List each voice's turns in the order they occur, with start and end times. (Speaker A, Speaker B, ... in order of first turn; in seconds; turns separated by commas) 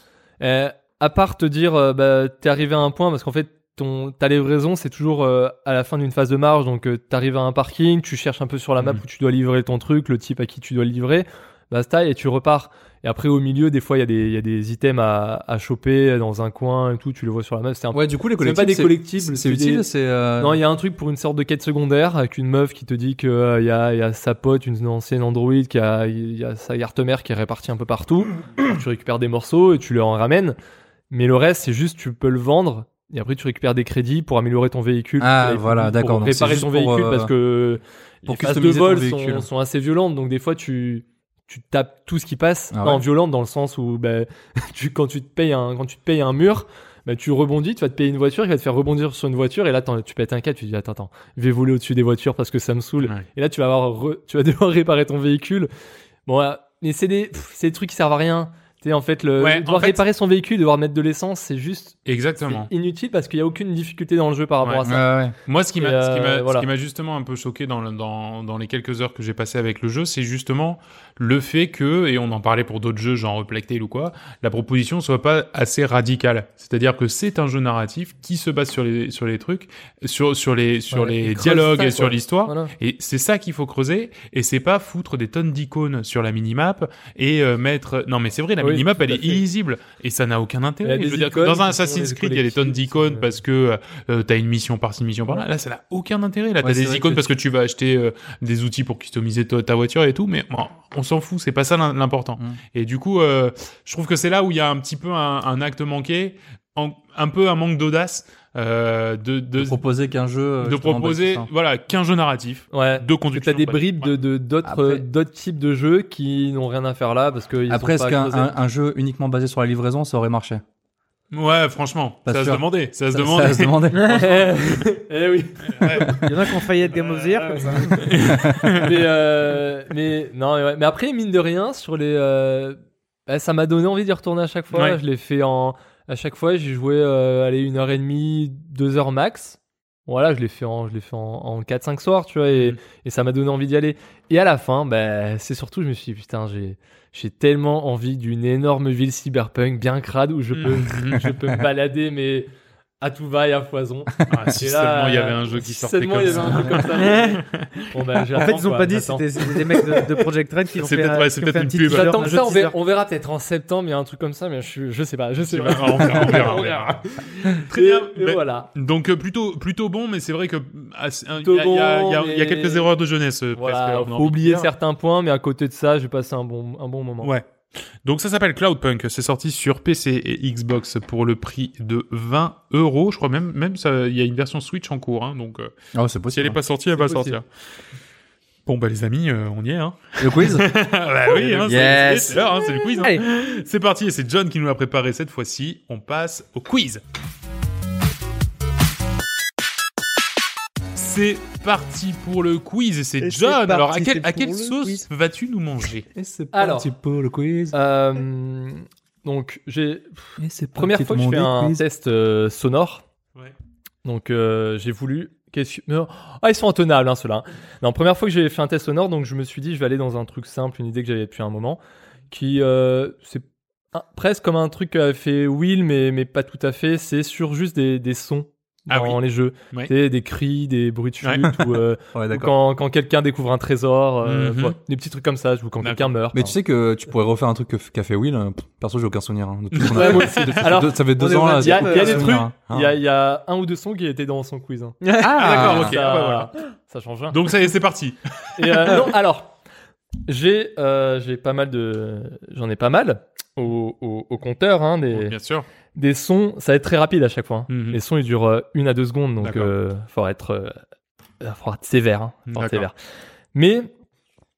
Speaker A: 0.4-19.9, Speaker B: 17.9-20.6, Speaker A: 20.4-30.6, Speaker A: 31.1-55.7, Speaker B: 35.2-37.3, Speaker B: 38.3-39.5, Speaker B: 42.7-43.0, Speaker A: 56.3-65.1, Speaker C: 59.4-60.0, Speaker C: 62.1-62.7, Speaker C: 64.6-64.9, Speaker B: 64.8-65.3, Speaker C: 65.5-109.8, Speaker A: 65.8-66.7, Speaker A: 80.9-82.7, Speaker A: 88.6-89.4, Speaker A: 90.8-93.3, Speaker B: 96.6-97.3, Speaker B: 109.6-111.5, Speaker C: 110.6-114.1, Speaker A: 112.7-118.5, Speaker B: 114.6-115.0, Speaker B: 117.7-120.6, Speaker C: 121.3-124.8, Speaker B: 122.2-124.2, Speaker A: 124.0-126.3, Speaker C: 125.7-126.3, Speaker D: 126.2-128.1, Speaker A: 127.0-152.5, Speaker C: 128.0-128.9, Speaker C: 134.7-135.0, Speaker C: 142.5-142.8, Speaker C: 150.5-151.3, Speaker A: 153.0-160.2, Speaker C: 154.3-157.7, Speaker D: 156.9-157.4, Speaker D: 158.3-162.8, Speaker C: 160.8-162.3, Speaker A: 161.9-168.7, Speaker C: 165.4-174.7, Speaker A: 171.4-172.9, Speaker A: 173.6-177.3, Speaker C: 177.2-177.5, Speaker C: 178.0-185.7, Speaker B: 185.9-186.6, Speaker C: 186.3-187.4, Speaker A: 187.0-187.3, Speaker C: 188.7-197.0, Speaker B: 190.2-190.7, Speaker B: 191.6-192.4, Speaker C: 200.9-206.1, Speaker D: 203.2-205.1, Speaker B: 206.1-207.8, Speaker A: 206.5-206.9, Speaker A: 207.7-213.0, Speaker B: 210.4-211.8, Speaker A: 214.0-221.8, Speaker A: 222.3-236.6, Speaker C: 228.9-229.2, Speaker C: 231.2-231.5, Speaker B: 232.1-232.6, Speaker C: 234.2-234.8, Speaker C: 235.8-236.1, Speaker B: 236.3-242.9, Speaker C: 239.7-240.6, Speaker A: 239.9-247.4, Speaker D: 241.0-242.4, Speaker D: 245.0-245.8, Speaker B: 245.2-246.0, Speaker C: 245.3-246.5, Speaker C: 247.3-249.0, Speaker A: 248.6-249.6, Speaker A: 250.3-255.3, Speaker C: 255.1-255.7, Speaker A: 255.9-260.8, Speaker C: 257.7-258.0, Speaker C: 259.4-259.7, Speaker A: 261.4-262.9, Speaker C: 262.5-262.9, Speaker A: 263.5-263.9